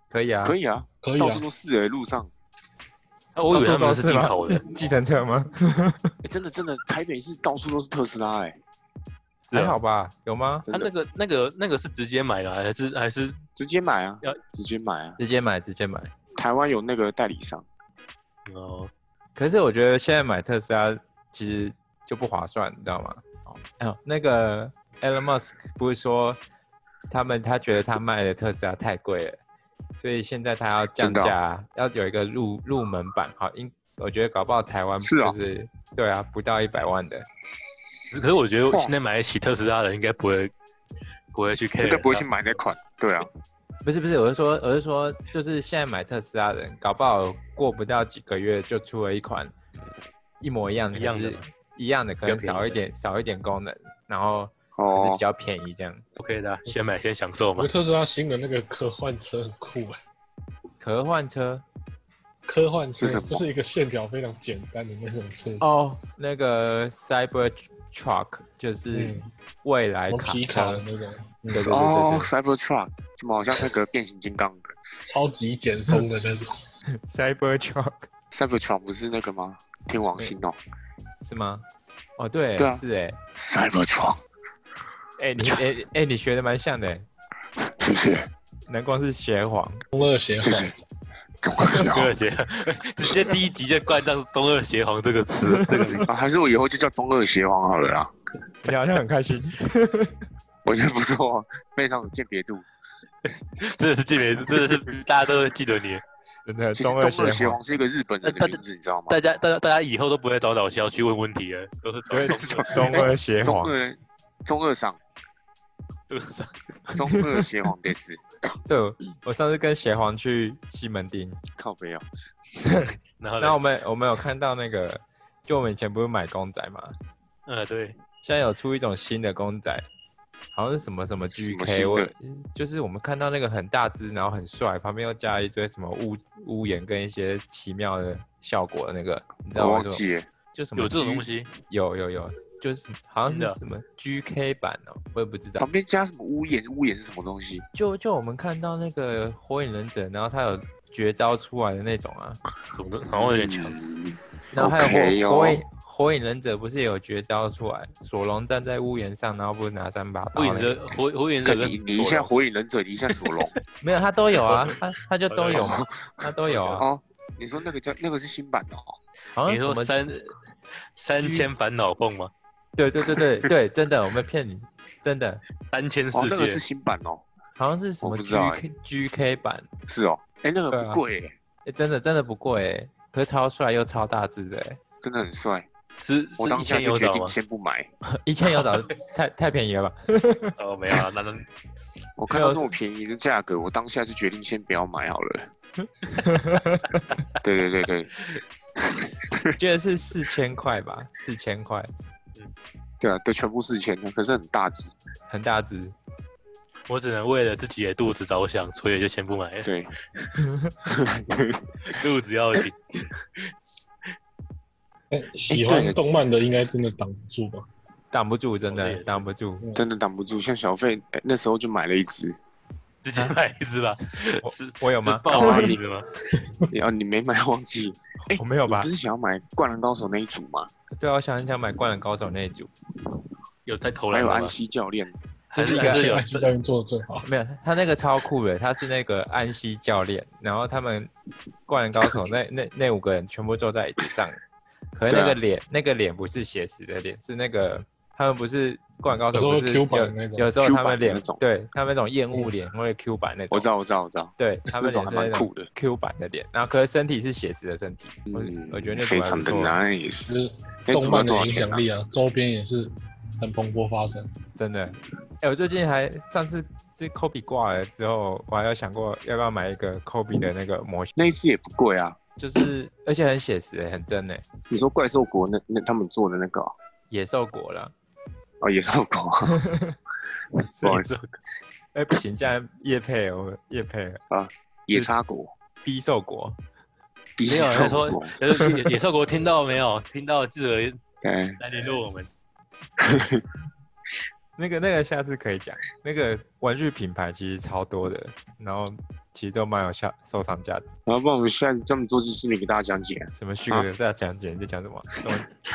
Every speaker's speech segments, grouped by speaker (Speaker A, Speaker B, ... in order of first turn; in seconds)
Speaker A: 0.1-0.6, 3.5-6.1, 9.5-10.7, 15.2-16.1, 19.4-26.4, 27.0-29.4, 30.0-37.2, 43.8-49.5, 50.4-56.0, 60.8-61.6, 65.6-70.8, 71.5-72.3, 77.0-78.1, 81.2-81.6, 82.2-83.2, 85.2-87.0, 88.7-89.8, 95.4-96.0, 98.6-100.2, 106.5-107.6, 112.1-113.7, 118.7-121.4, 122.6-126.9, 128.2-129.8, 130.5-140.0, 140.5-145.7, 147.7-152.4, 154.5-160.8, 163.8-166.9, 169.3-169.9, 171.2-171.5, 172.8-175.4, 177.6-179.7, 180.7-181.0, 181.7-184.8, 188.2-191.0, 192.3-192.8, 196.2-197.0, 199.6-201.9, 205.3-205.9, 210.4-210.7, 218.1-219.6, 224.4-225.8, 228.2-228.9, 230.9-232.7, 235.5-236.2, 237.2-241.1, 241.7-244.4, 244.9-253.7, 254.4-259.8, 264.6-271.1, 272.4-274.4, 277.1-277.9, 279.5-279.9, 280.8-281.1, 281.9-284.2, 285.8-286.6, 294.6-300.9, 303.3-305.5
Speaker B: 0.4-2.3, 6.2-8.6, 10.6-10.9, 13.6-15.2, 16.4-17.6, 31.0-31.3, 35.0-35.4, 41.8-43.3, 54.8-55.2, 63.0-63.4, 71.5-74.7, 78.3-80.5, 82.6-82.8, 83.3-84.2, 87.8-88.3, 90.4-90.7, 91.4-92.1, 95.9-98.1, 100.7-102.7, 106.8-109.2, 112.3-115.0, 116.9-118.2, 121.5-122.0, 131.3-132.1, 139.5-140.3, 145.6-147.7, 153.1-155.6, 161.4-163.5, 165.5-169.0, 176.1-177.2, 178.0-178.6, 179.9-181.3, 185.0-185.7, 186.4-187.9, 192.2-195.5, 197.4-198.2, 198.8-199.5, 203.0-204.9, 209.6-209.9, 210.9-211.6, 215.5-215.9, 219.7-222.4, 225.3-225.8, 226.7-230.7, 234.1-235.2, 245.1-245.4, 250.6-251.4, 253.5-255.7, 258.3-260.3, 260.9-261.8, 271.1-272.2, 274.7-276.7, 278.6-279.6, 280.8-281.1, 284.3-285.5, 287.4-288.9, 291.2-291.6, 293.0-293.4, 301.1-303.9
Speaker C: 1.0-1.4, 57.6-60.0, 62.5-65.7, 68.9-69.3, 70.1-71.7, 75.0-76.5, 89.9-90.8, 215.1-217.7, 226.3-226.7, 235.7-237.3, 249.3-250.5, 260.3-264.3
Speaker D: 3.4-4.6, 9.5-9.8, 10.7-13.4, 18.5-18.9, 38.1-40.5, 41.3-42.3, 50.9-51.4, 52.2-52.8, 56.2-57.7, 91.9-96.0, 103.6-106.0, 108.2-113.1, 116.1-116.6, 123.2-123.6, 127.5-128.0, 140.8-141.5, 143.3-143.6, 152.7-153.8, 160.3-162.3, 163.1-163.4, 164.4-164.7, 165.3-165.8, 166.5-166.8, 169.4-170.3, 170.9-172.3, 175.7-176.6, 186.0-187.3, 190.6-191.5, 206.9-210.2, 211.8-213.4, 218.7-219.2, 223.0-226.1, 233.7-234.5, 235.5-236.4, 280.8-281.3, 287.4-291.0, 291.6-292.3